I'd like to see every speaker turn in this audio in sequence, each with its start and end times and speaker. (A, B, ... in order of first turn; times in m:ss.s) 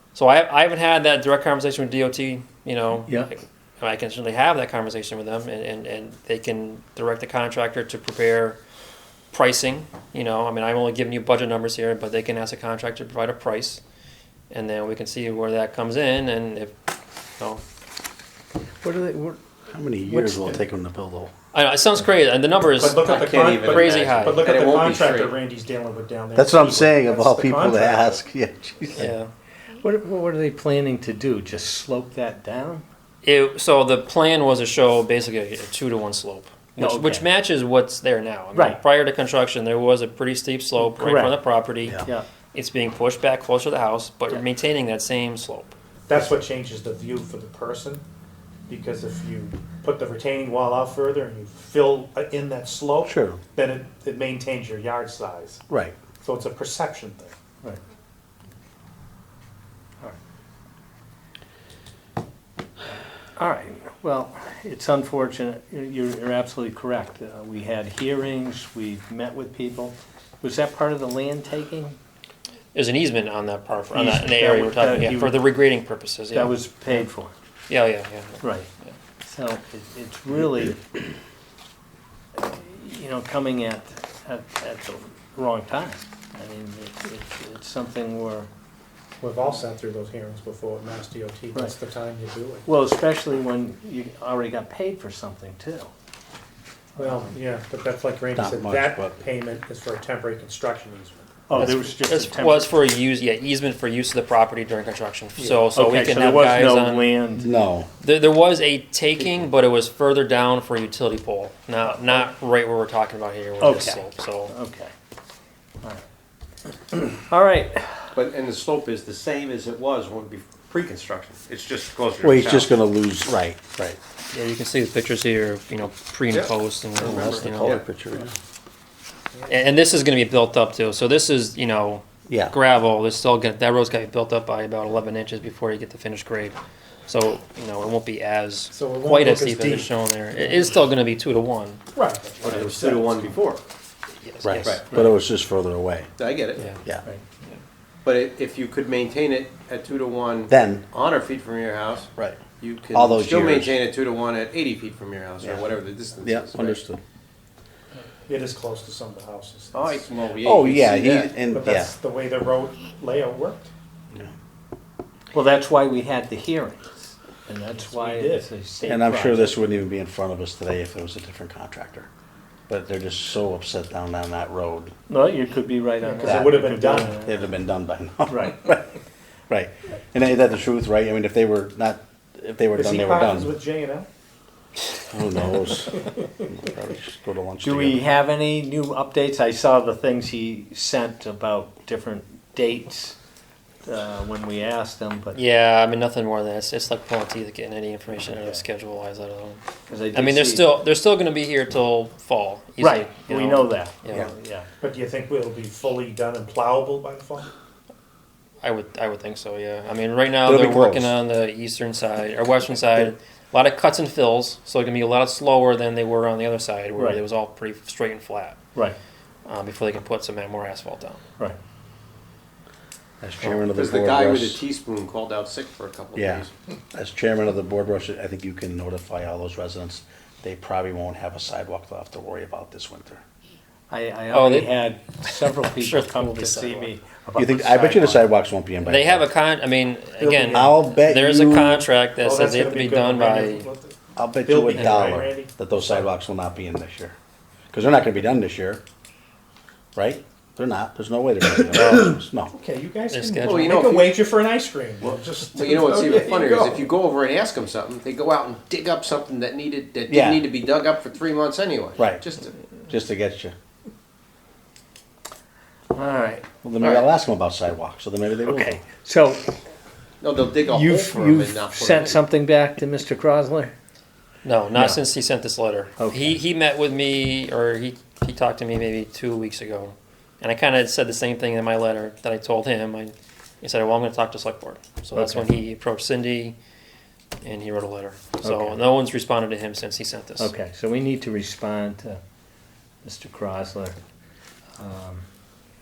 0:00.2-0:08.6 A
0:03.1-0:03.3 B
0:09.3-0:13.8 A
0:14.5-0:16.7 A
0:18.8-0:19.4 B
0:19.7-0:21.3 C
0:20.2-0:20.6 D
0:21.5-0:24.5 A
0:22.8-0:28.2 D
0:22.9-0:25.4 E
0:26.4-0:29.1 C
0:29.0-0:29.3 A
0:29.8-0:32.8 B
0:33.2-0:45.8 A
0:36.8-0:37.3 B
0:38.5-0:38.8 B
0:40.8-0:41.4 B
0:46.1-0:48.0 D
0:48.7-0:55.6 D
0:53.0-0:53.4 C
0:55.7-0:56.0 C
0:56.2-0:57.4 D
1:03.4-1:12.0 B
1:12.7-1:17.0 A
1:13.9-1:15.4 B
1:16.3-1:17.3 B
1:17.7-1:19.0 A
1:18.4-1:18.7 B
1:19.2-1:21.0 B
1:22.3-1:28.5 B
1:29.2-1:32.7 D
1:32.7-1:35.9 B
1:37.0-1:37.3 B
1:37.0-1:41.5 D
1:38.3-1:39.2 C
1:41.5-1:42.7 B
1:41.6-1:47.1 A
1:45.4-1:47.5 B
1:47.4-1:47.9 C
1:48.0-1:54.5 A
1:52.0-1:52.2 B
1:53.6-1:54.9 B
1:56.9-1:58.2 B
1:58.2-2:02.7 E
2:02.2-2:04.0 C
2:04.3-2:07.8 A
2:06.3-2:07.8 E
2:07.0-2:08.3 C
2:09.3-2:09.7 D
2:09.5-2:21.8 A
2:12.3-2:12.6 C
2:18.7-2:19.9 D
2:21.9-2:23.4 D
2:22.4-2:23.6 E
2:24.2-2:25.0 A
2:24.4-2:26.1 C
2:24.9-2:25.2 B
2:26.2-2:26.8 E
2:26.6-2:26.8 A
2:28.0-2:36.8 E
2:30.5-2:30.9 C
2:32.2-2:33.8 C
2:35.4-2:35.7 C
2:36.2-2:37.0 C
2:38.0-2:40.2 D
2:39.7-2:41.3 E
2:40.4-2:41.9 C
2:41.5-2:43.7 D
2:45.3-2:49.6 B
2:47.8-2:48.5 D
2:48.9-2:52.1 C
2:52.7-2:54.9 C
2:55.1-2:57.4 B
2:56.0-2:57.2 D
2:56.2-2:58.9 C
2:58.3-2:58.7 B
2:59.5-3:03.6 C
3:02.7-3:04.1 D
3:05.0-3:08.1 C
3:05.7-3:06.3 D
3:07.6-3:13.2 B
3:13.8-3:15.4 B
3:15.3-3:19.6 A
3:18.3-3:18.7 B
3:19.9-3:20.8 B
3:20.1-3:24.3 A
3:22.8-3:24.7 B
3:24.8-3:27.5 D
3:28.6-3:38.6 A
3:30.4-3:31.2 C
3:37.0-3:37.2 B
3:39.5-3:41.2 A
3:43.2-3:44.6 C
3:43.7-3:46.5 E
3:46.2-3:53.2 C
3:53.9-3:58.3 B
3:54.3-3:56.9 A
3:57.4-3:59.3 C
3:58.8-4:03.7 A
4:00.2-4:00.7 D
4:00.5-4:01.9 C
4:02.2-4:06.1 D
4:04.2-4:07.2 C
4:07.7-4:08.8 C
4:10.0-4:12.5 C
4:12.5-4:16.2 D
4:13.1-4:13.8 A
4:13.4-4:14.3 E
4:15.5-4:22.6 E
4:15.6-4:16.7 C
4:20.1-4:20.5 C
4:22.0-4:22.2 C
4:22.9-4:23.5 C
4:25.9-4:26.5 B
4:26.6-4:28.8 C
4:26.8-4:27.0 E
4:28.4-4:29.5 B
4:30.2-4:32.2 E
4:30.6-4:33.7 B
4:34.4-4:46.6 A
4:34.7-4:35.0 B
4:36.0-4:36.4 B
4:45.2-4:45.5 B
4:47.4-4:50.5 A
4:48.4-4:48.8 B
4:50.4-4:52.2 B
4:53.0-4:54.0 B
4:54.8-4:55.2 B